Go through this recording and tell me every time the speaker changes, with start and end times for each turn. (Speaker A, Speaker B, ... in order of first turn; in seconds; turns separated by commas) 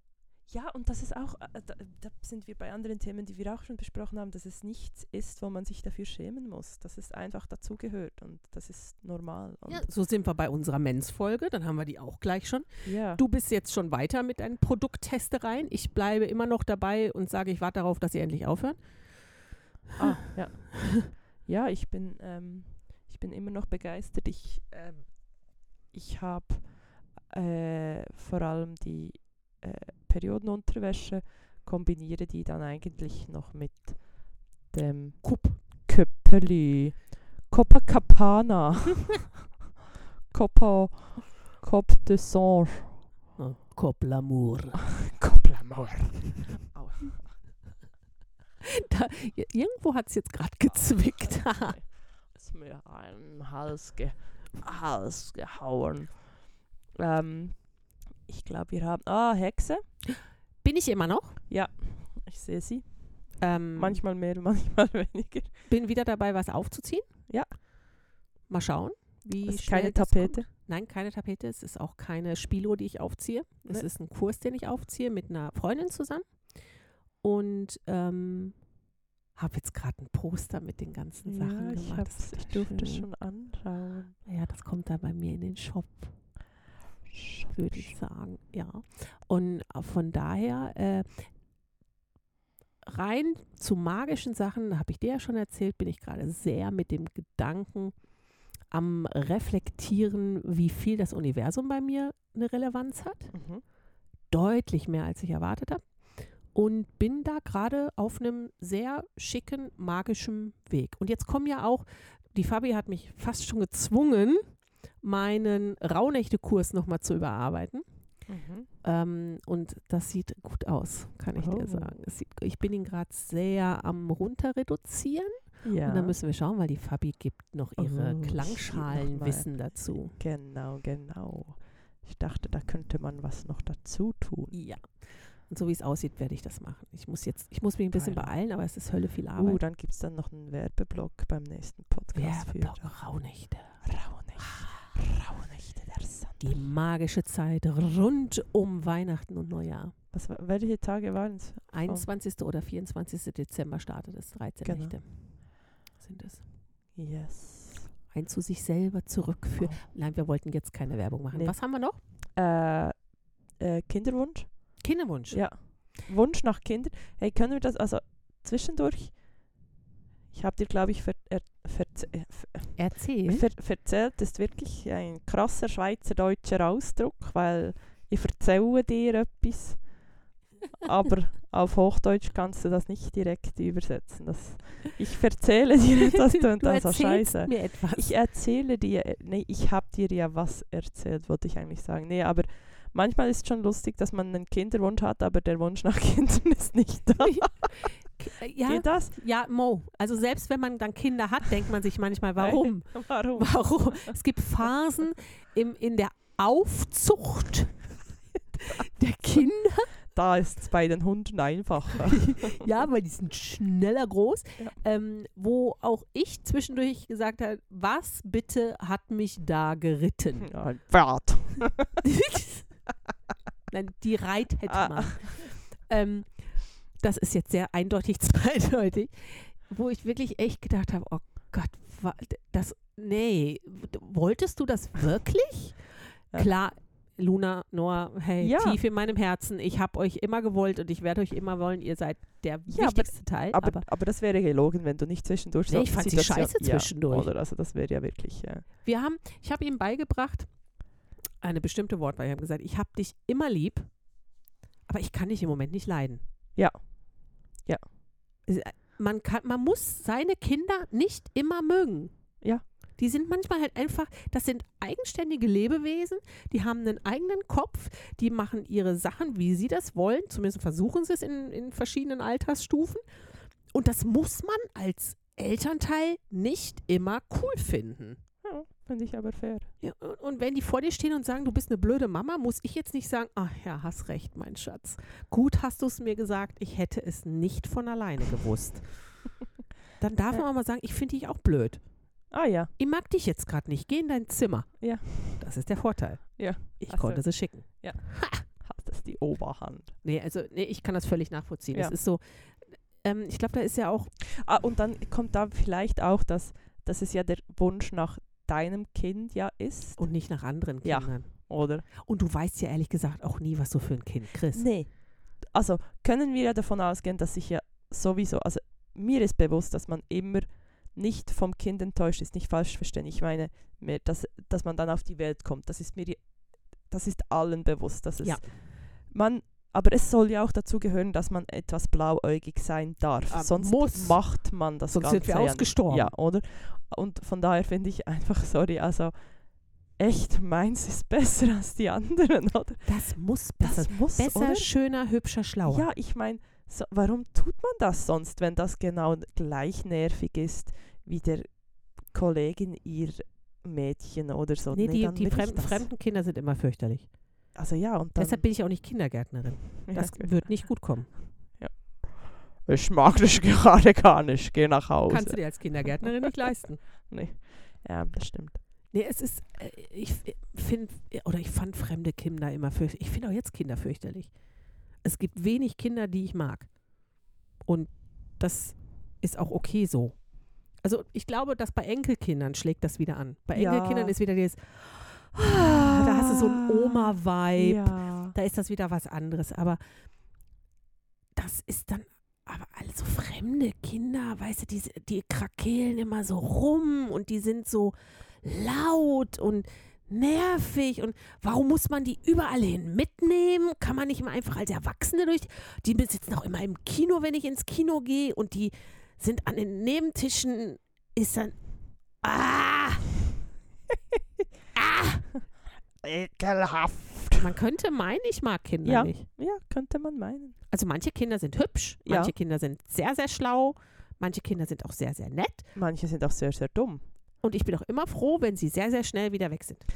Speaker A: 0.5-9.9, Speaker B: 9.7-18.8, Speaker A: 12.8-13.2, Speaker A: 20.0-39.4, Speaker B: 35.2-35.6, Speaker A: 40.3-43.0, Speaker B: 43.4-44.9, Speaker A: 45.0-47.3, Speaker B: 48.6-51.8, Speaker A: 50.7-59.8, Speaker B: 60.6-61.4, Speaker A: 61.5-65.5, Speaker B: 63.4-64.0, Speaker B: 65.7-67.1, Speaker B: 68.5-76.5, Speaker A: 69.5-70.5, Speaker B: 77.2-78.6, Speaker B: 79.4-83.1, Speaker A: 81.2-84.2, Speaker B: 84.3-86.1, Speaker A: 87.1-87.9, Speaker B: 87.5-91.3, Speaker B: 92.8-98.0, Speaker B: 98.7-103.3, Speaker A: 103.3-103.6, Speaker B: 104.3-105.8, Speaker B: 106.5-117.8, Speaker A: 118.3-118.7, Speaker B: 118.8-130.2, Speaker A: 121.3-121.9, Speaker A: 125.6-126.2, Speaker A: 127.8-134.6, Speaker B: 134.5-139.6, Speaker A: 137.9-138.3, Speaker A: 139.3-142.9, Speaker B: 142.1-143.8, Speaker A: 143.8-146.6, Speaker B: 144.4-144.9, Speaker B: 146.4-149.9, Speaker A: 150.1-152.1, Speaker B: 151.7-156.4, Speaker A: 154.6-155.0, Speaker A: 156.9-157.9, Speaker B: 158.1-162.0, Speaker A: 159.6-159.8, Speaker A: 161.3-161.6, Speaker A: 162.4-169.2, Speaker B: 164.8-165.4, Speaker A: 170.3-180.1, Speaker B: 172.8-173.4, Speaker A: 180.7-197.9, Speaker B: 186.3-188.1, Speaker B: 197.2-207.9, Speaker A: 198.7-199.1, Speaker A: 202.4-204.2, Speaker B: 208.6-209.9, Speaker A: 210.1-212.7, Speaker B: 212.1-220.5, Speaker A: 220.5-222.0, Speaker B: 222.0-222.7, Speaker B: 223.7-243.8, Speaker A: 224.7-225.5, Speaker A: 238.4-238.8, Speaker A: 242.7-248.7, Speaker B: 245.7-247.3, Speaker B: 248.8-250.5, Speaker B: 251.4-253.9, Speaker B: 254.9-256.2, Speaker A: 256.6-257.8, Speaker B: 258.4-262.1, Speaker B: 263.0-273.0, Speaker B: 273.7-278.2, Speaker A: 278.4-279.7, Speaker B: 279.8-289.2, Speaker B: 290.0-291.8, Speaker A: 292.3-292.7, Speaker B: 292.8-298.4, Speaker A: 294.8-295.4, Speaker A: 296.4-299.9, Speaker B: 300.0-304.1, Speaker A: 304.2-310.1, Speaker B: 310.0-314.7, Speaker A: 310.8-311.8, Speaker A: 314.5-342.9, Speaker B: 328.2-328.5, Speaker B: 333.3-336.1, Speaker B: 342.8-345.9, Speaker A: 343.6-344.7, Speaker A: 345.6-355.9, Speaker B: 354.7-357.1, Speaker A: 357.5-358.4, Speaker B: 358.1-361.2, Speaker A: 359.8-366.5, Speaker B: 365.1-366.8, Speaker A: 367.1-368.6, Speaker B: 368.9-374.3, Speaker B: 375.0-376.7, Speaker B: 377.6-380.2, Speaker B: 380.8-389.8, Speaker A: 383.5-384.1, Speaker A: 385.4-388.3, Speaker B: 391.4-411.6, Speaker B: 412.1-413.1, Speaker B: 414.7-415.3, Speaker A: 416.0-417.5, Speaker B: 417.4-419.3, Speaker A: 418.8-420.6, Speaker B: 420.7-425.7, Speaker A: 422.1-422.3, Speaker A: 425.7-427.1, Speaker B: 427.4-429.9